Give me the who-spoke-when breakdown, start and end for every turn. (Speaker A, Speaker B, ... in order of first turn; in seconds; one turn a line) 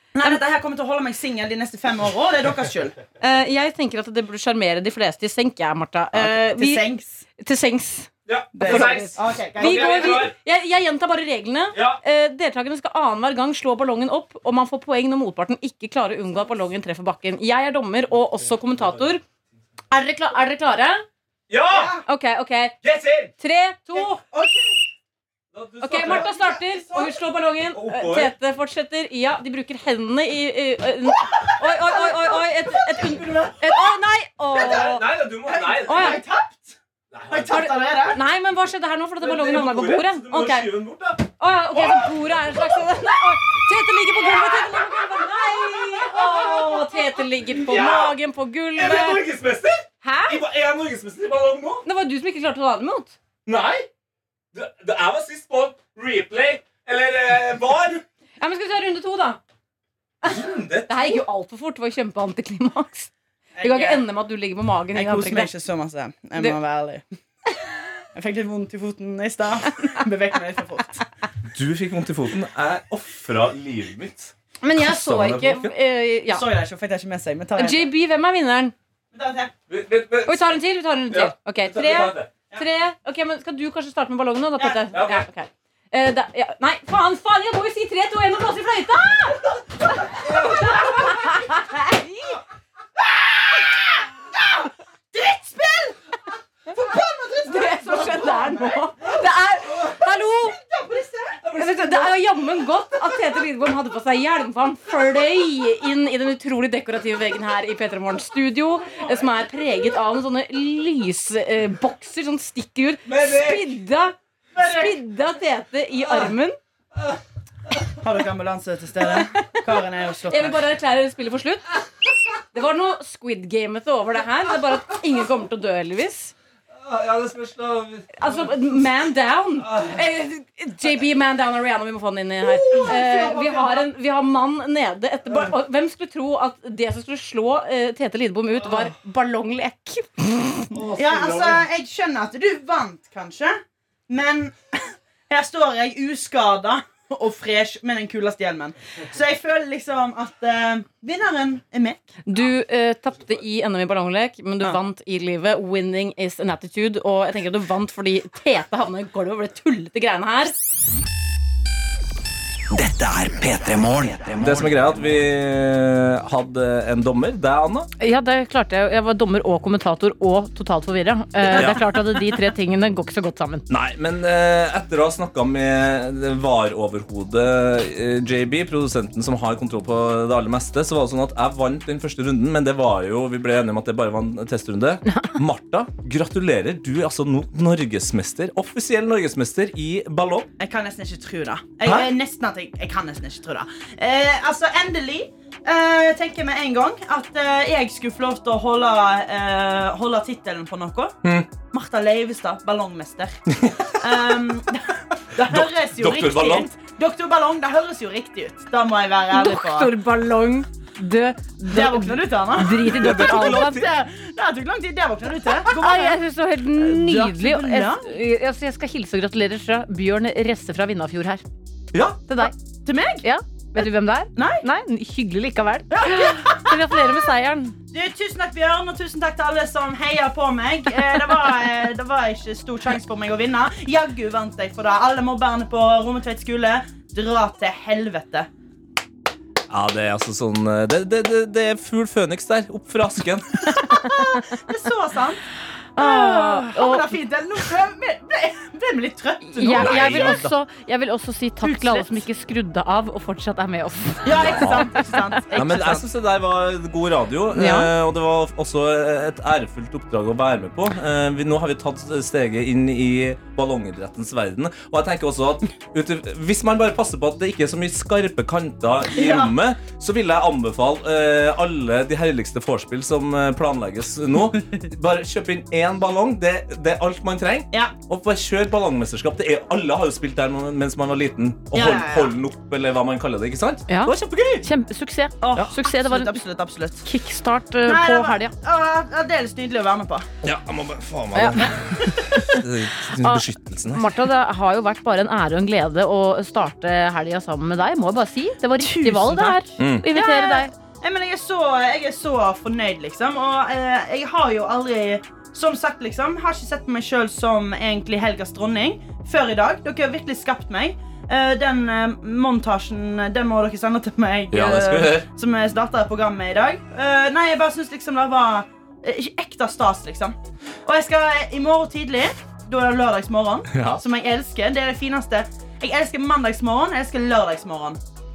Speaker A: 0.1-3.0
Speaker B: 3.2-6.8
Speaker A: 6.1-7.2
Speaker B: 7.4-19.2
Speaker C: 8.2-10.3
Speaker A: 8.5-10.3
Speaker C: 11.7-12.0
Speaker B: 19.9-21.0
Speaker C: 21.5-21.9
Speaker A: 21.7-22.0
Speaker B: 22.1-22.7
Speaker C: 22.8-23.3
Speaker B: 23.4-24.2
Speaker A: 23.9-24.8
Speaker C: 25.5-26.3
Speaker B: 25.8-35.1
Speaker A: 26.0-27.2
Speaker C: 27.7-28.3
Speaker A: 31.8-32.4
Speaker C: 33.1-33.4
Speaker A: 33.1-33.5
Speaker C: 34.5-36.2
Speaker A: 35.5-36.8
Speaker B: 35.8-36.2
Speaker C: 37.1-37.6
Speaker A: 37.3-38.2
Speaker B: 37.5-40.7
Speaker C: 39.2-42.6
Speaker B: 41.4-49.2
Speaker C: 44.2-46.8
Speaker C: 47.5-48.1
Speaker C: 48.7-51.9
Speaker B: 50.0-50.4
Speaker B: 51.8-53.1
Speaker C: 53.5-53.9
Speaker C: 54.5-58.0
Speaker B: 58.4-59.4
Speaker C: 60.2-61.2
Speaker B: 60.2-65.5
Speaker A: 63.5-64.0
Speaker A: 64.9-67.0
Speaker A: 68.1-71.0
Speaker C: 71.5-75.7
Speaker B: 74.6-76.5
Speaker A: 76.3-77.9
Speaker B: 77.6-78.7
Speaker A: 79.1-79.5
Speaker C: 79.7-80.5
Speaker B: 80.2-89.5
Speaker C: 81.1-82.3
Speaker A: 84.6-84.9
Speaker C: 84.9-85.2
Speaker B: 90.2-92.4
Speaker C: 90.2-90.5
Speaker A: 94.4-96.0
Speaker A: 96.7-98.9
Speaker B: 97.4-100.6
Speaker A: 100.4-101.5
Speaker C: 101.4-102.1
Speaker B: 101.5-116.6
Speaker C: 113.0-113.8
Speaker A: 118.0-120.6
Speaker B: 119.0-119.6
Speaker B: 120.2-121.8
Speaker B: 122.5-126.3
Speaker C: 126.8-128.5
Speaker B: 128.2-140.7
Speaker C: 129.6-130.0
Speaker A: 132.5-133.8
Speaker C: 140.7-141.6
Speaker A: 140.9-152.1
Speaker B: 152.2-160.5
Speaker D: 162.7-164.8
Speaker C: 164.4-167.9
Speaker B: 168.0-173.6
Speaker C: 171.5-171.9
Speaker C: 173.7-190.5
Speaker B: 185.1-185.3
Speaker A: 190.6-203.4
Speaker C: 191.8-192.1
Speaker C: 201.2-201.5
Speaker C: 203.5-203.9
Speaker A: 204.0-209.9
Speaker C: 205.4-206.7
Speaker B: 209.3-213.8
Speaker A: 211.7-216.2
Speaker C: 212.8-213.9
Speaker B: 215.6-221.4
Speaker A: 216.8-218.1
Speaker C: 221.9-222.2
Speaker B: 222.3-222.5
Speaker A: 222.4-223.2
Speaker B: 223.2-227.8
Speaker A: 224.3-224.6
Speaker A: 225.9-227.0
Speaker A: 227.9-238.5
Speaker C: 239.7-243.6
Speaker A: 243.8-245.4
Speaker B: 245.9-247.2
Speaker A: 246.0-250.4
Speaker B: 249.5-254.8
Speaker C: 249.8-250.5
Speaker A: 251.6-252.2
Speaker A: 254.2-256.0
Speaker C: 254.5-254.9
Speaker C: 255.5-284.6
Speaker B: 257.5-257.9
Speaker A: 269.1-269.5
Speaker A: 281.7-282.3
Speaker B: 283.9-286.4
Speaker A: 285.4-287.1
Speaker B: 287.0-288.5
Speaker A: 287.8-290.3
Speaker C: 290.4-294.1
Speaker B: 291.3-292.6
Speaker B: 293.2-300.7
Speaker A: 298.8-328.0
Speaker C: 299.8-300.1
Speaker C: 314.5-315.3
Speaker C: 323.7-324.0